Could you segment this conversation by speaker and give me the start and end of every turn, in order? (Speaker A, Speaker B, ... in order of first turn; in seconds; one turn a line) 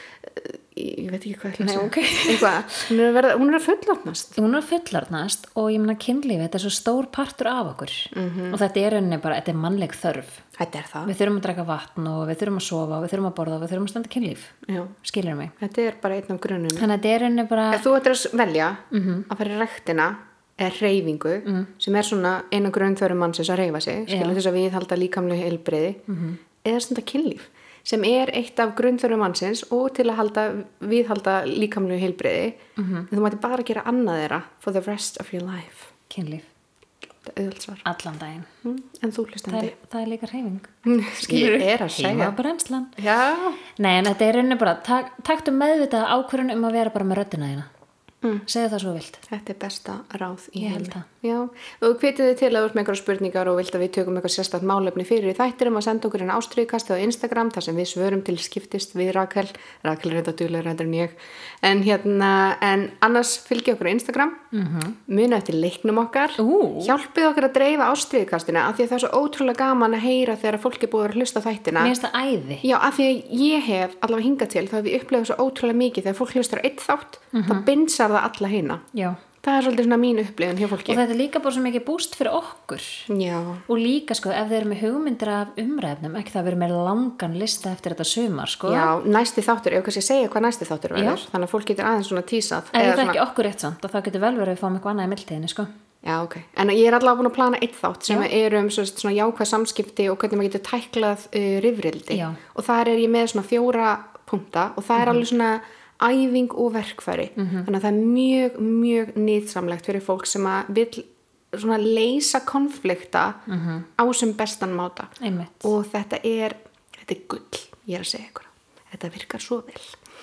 Speaker A: 0.2-4.4
Speaker B: 1.6-2.9
Speaker B: 4.4-10.4
Speaker A: 8.1-8.6
Speaker A: 10.6-11.1
Speaker B: 11.1-15.5
Speaker A: 14.7-14.9
Speaker A: 15.6-16.9
Speaker B: 16.7-17.9
Speaker A: 17.7-26.0
Speaker B: 18.9-19.3
Speaker B: 21.4-21.7
Speaker B: 24.1-24.4
Speaker B: 26.1-26.4
Speaker A: 26.6-35.9
Speaker B: 32.8-33.1
Speaker B: 36.1-36.5
Speaker A: 37.2-37.9
Speaker B: 37.9-38.5
Speaker A: 38.6-39.7
Speaker B: 39.5-43.0
Speaker A: 40.9-42.4
Speaker A: 43.0-43.6
Speaker B: 43.8-47.7
Speaker B: 48.5-49.2
Speaker A: 49.3-64.4
Speaker B: 50.6-51.1
Speaker B: 64.5-65.0
Speaker A: 65.1-71.9
Speaker B: 66.4-67.0
Speaker B: 71.8-72.7
Speaker A: 72.6-78.8
Speaker B: 77.3-77.7
Speaker B: 78.9-79.2
Speaker A: 79.4-81.0
Speaker B: 80.8-83.1
Speaker A: 83.1-83.6
Speaker B: 83.7-88.9
Speaker A: 88.7-93.2
Speaker B: 91.0-91.2
Speaker B: 92.7-95.7
Speaker A: 96.0-113.4
Speaker B: 102.1-102.4
Speaker B: 105.0-105.2
Speaker B: 107.4-107.7
Speaker B: 113.5-113.9
Speaker A: 114.0-120.0
Speaker B: 115.2-115.7